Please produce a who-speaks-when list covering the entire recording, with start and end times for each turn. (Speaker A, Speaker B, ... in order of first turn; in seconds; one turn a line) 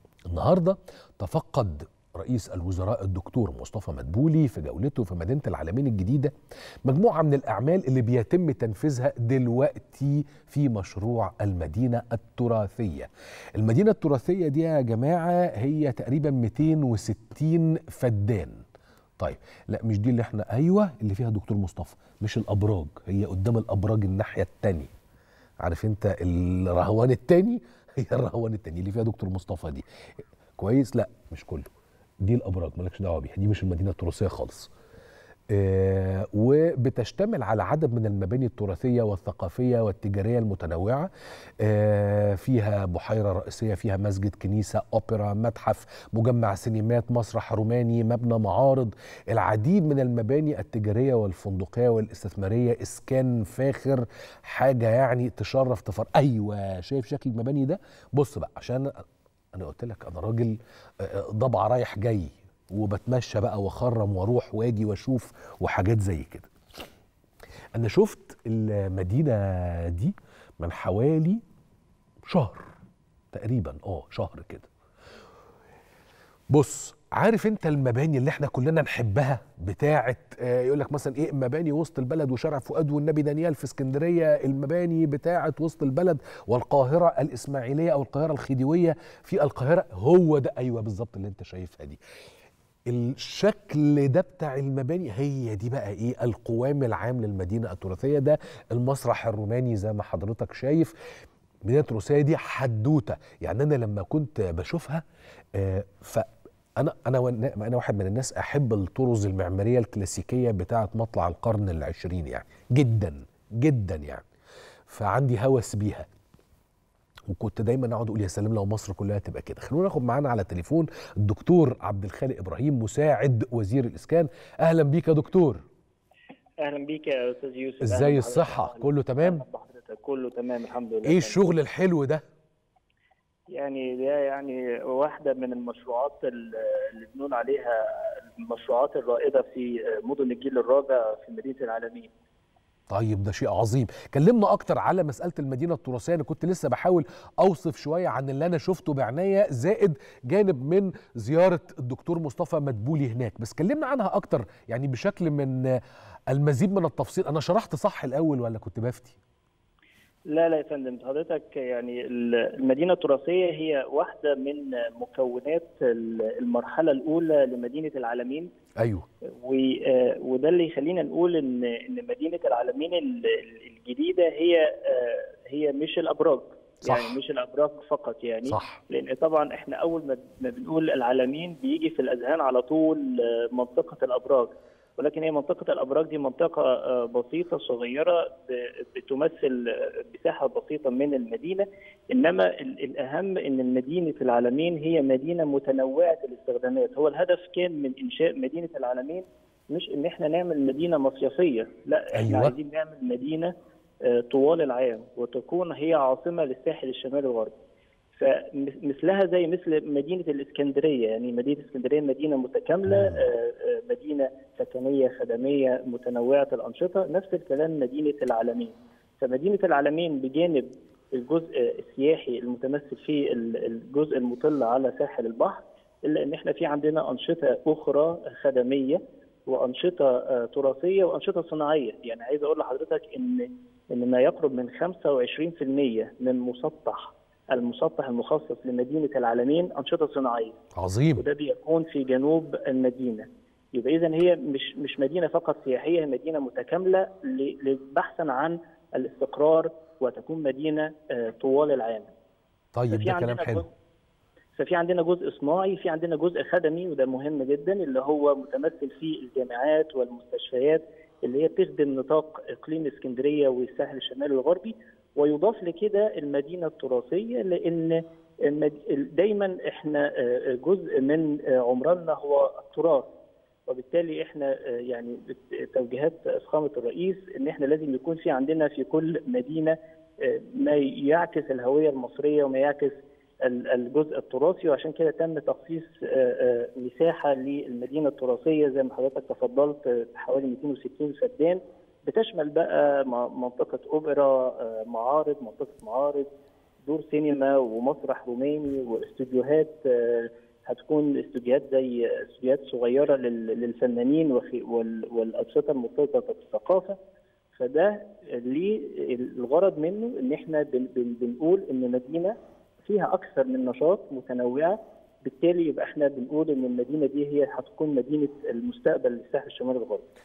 Speaker A: 0.3-6.3
Speaker A: 6.8-18.6
Speaker A: 19.2-24.9
Speaker A: 25.6-29.8
Speaker A: 30.6-31.7
Speaker A: 32.2-34.7
Speaker A: 35.5-41.1
Speaker A: 41.6-58.9
Speaker A: 59.5-66.5
Speaker A: 67.7-71.4
Speaker A: 72.3-72.7
Speaker A: 73.3-74.7
Speaker A: 76.5-92.0
Speaker A: 92.9-100.9
Speaker A: 101.7-105.0
Speaker A: 105.5-114.3
Speaker A: 114.9-116.1
Speaker A: 117.3-125.6
Speaker B: 126.6-131.4
Speaker A: 127.8-129.4
Speaker A: 131.0-132.2
Speaker B: 133.5-142.1
Speaker A: 142.9-159.2
Speaker B: 160.3-168.5
Speaker A: 168.8-169.0
Speaker B: 169.3-203.5
Speaker A: 176.8-177.1
Speaker A: 178.4-178.8
Speaker A: 202.1-202.5
Speaker B: 204.0-207.5
Speaker B: 208.1-240.6
Speaker A: 212.9-213.2
Speaker A: 240.7-241.2
Speaker B: 241.2-252.1
Speaker A: 252.7-253.6
Speaker B: 252.9-253.7
Speaker B: 254.5-273.1
Speaker B: 273.7-296.3
Speaker B: 296.8-306.9
Speaker B: 307.6-320.1